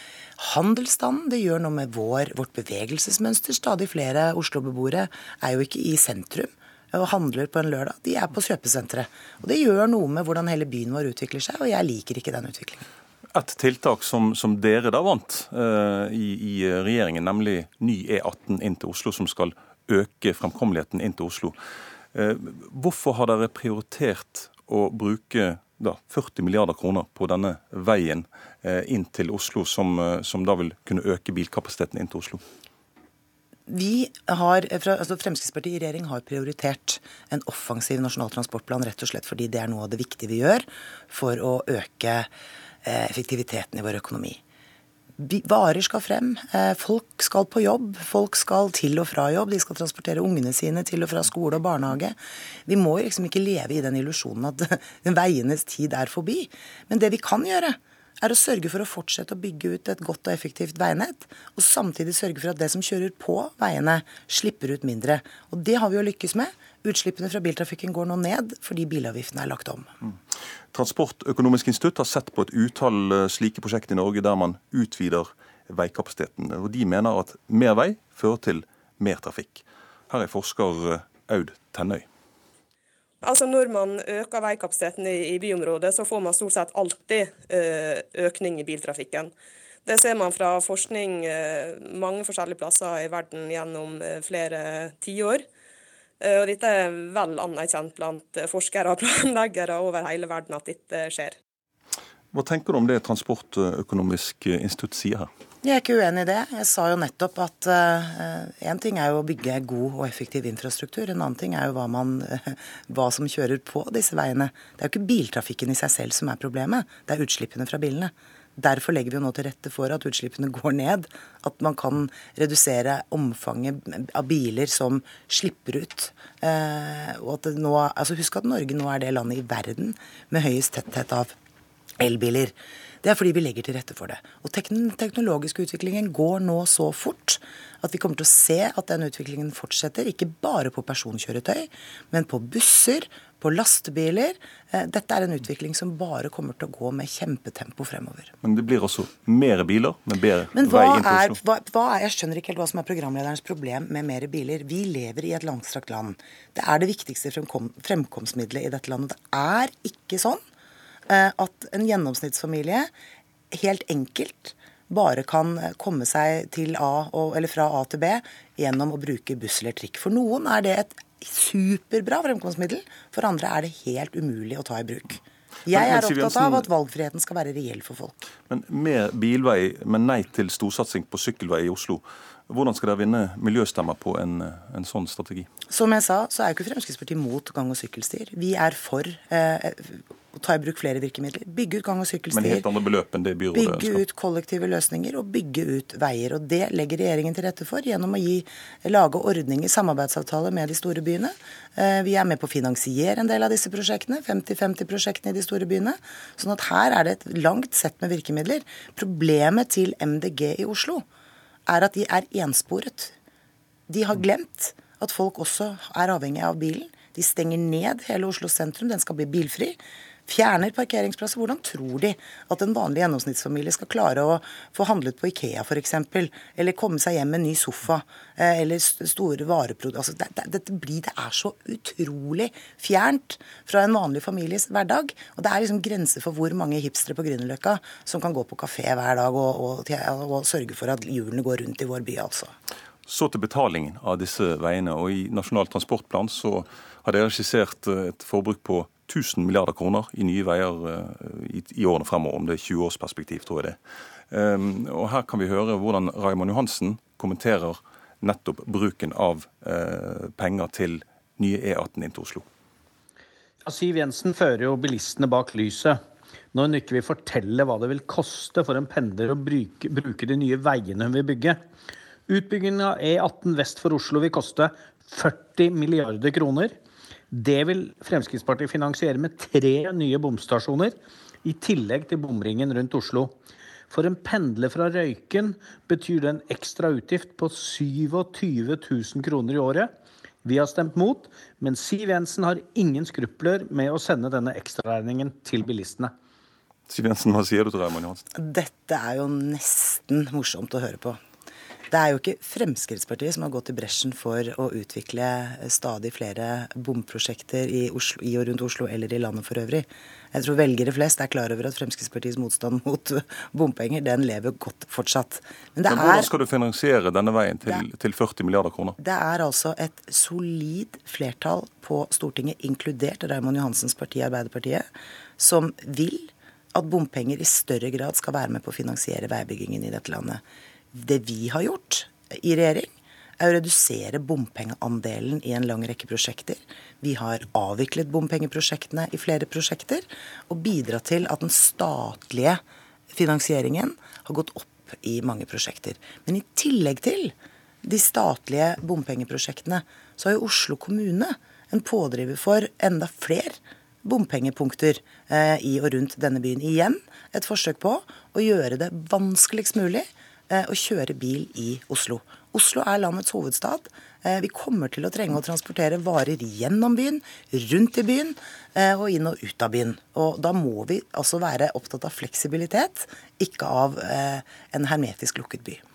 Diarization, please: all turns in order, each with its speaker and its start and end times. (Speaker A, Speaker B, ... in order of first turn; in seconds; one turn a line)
Speaker A: 0.4-12.8
Speaker B: 13.3-21.6
Speaker B: 22.1-32.4
Speaker A: 33.7-42.3
Speaker A: 42.8-44.4
Speaker A: 45.2-52.2
Speaker A: 52.7-69.9
Speaker B: 70.7-82.1
Speaker C: 83.2-89.3
Speaker C: 89.9-95.4
Speaker C: 96.2-101.3
Speaker B: 102.3-105.3
Speaker A: 105.6-131.3
Speaker A: 132.0-148.3
Speaker B: 148.4-151.4
Speaker A: 150.5-160.4
Speaker A: 161.1-162.9
Speaker A: 163.5-178.2
Speaker B: 175.7-176.7
Speaker B: 178.5-185.5
Speaker A: 185.7-192.7
Speaker B: 192.3-194.0
Speaker A: 193.5-211.0
Speaker A: 211.7-213.2
Speaker A: 213.9-242.5
Speaker B: 243.1-253.8
Speaker B: 254.3-262.5
Speaker D: 263.6-266.0
Speaker D: 266.5-271.6
Speaker D: 272.3-276.7
Speaker D: 277.3-283.3
Speaker D: 283.9-289.9
Speaker D: 290.4-296.1
Speaker B: 296.9-298.2
Speaker A: 298.4-301.2
Speaker A: 301.9-316.3
Speaker B: 315.9-319.0
Speaker A: 319.0-324.9
Speaker A: 325.4-330.4
Speaker A: 330.9-342.6
Speaker A: 343.1-375.8